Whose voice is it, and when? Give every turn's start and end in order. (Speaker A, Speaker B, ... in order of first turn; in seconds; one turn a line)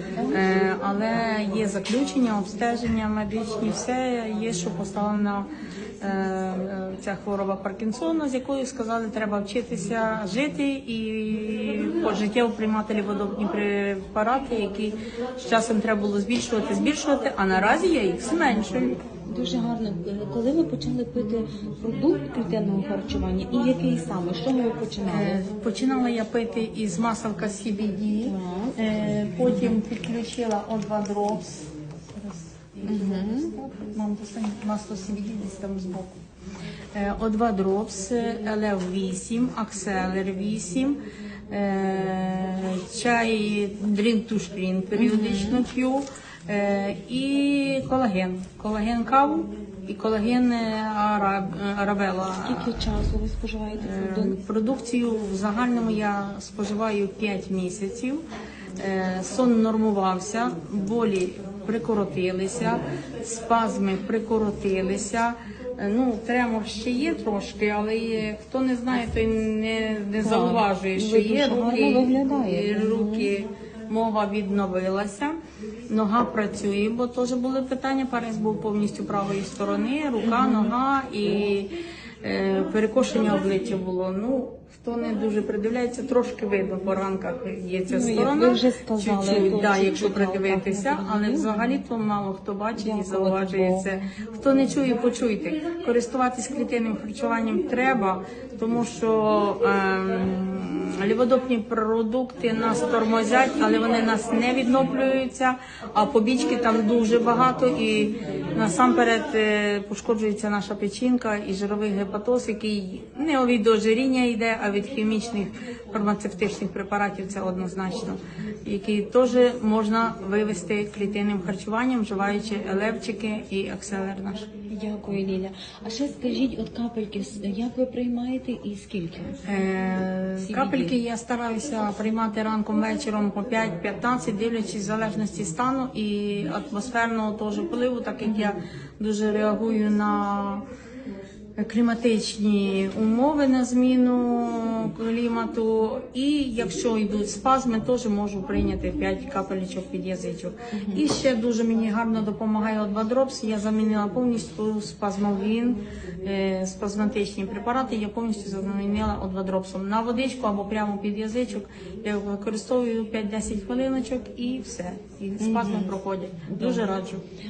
Speaker A: 0.3-5.5
Speaker A: 6.0-19.0
Speaker B: 19.3-25.4
Speaker A: 25.1-36.2
Speaker B: 28.2-28.8
Speaker B: 32.8-33.5
Speaker A: 36.9-41.0
Speaker A: 41.5-52.8
Speaker B: 45.0-45.6
Speaker B: 52.4-54.4
Speaker A: 53.8-58.2
Speaker A: 58.8-75.4
Speaker B: 70.2-73.3
Speaker A: 75.9-124.5
Speaker B: 80.2-80.7
Speaker B: 87.9-91.7
Speaker B: 92.8-94.0
Speaker B: 124.7-129.4
Speaker A: 129.4-140.6
Speaker B: 130.4-130.9
Speaker A: 141.6-167.2
Speaker B: 150.7-151.0
Speaker B: 165.4-165.9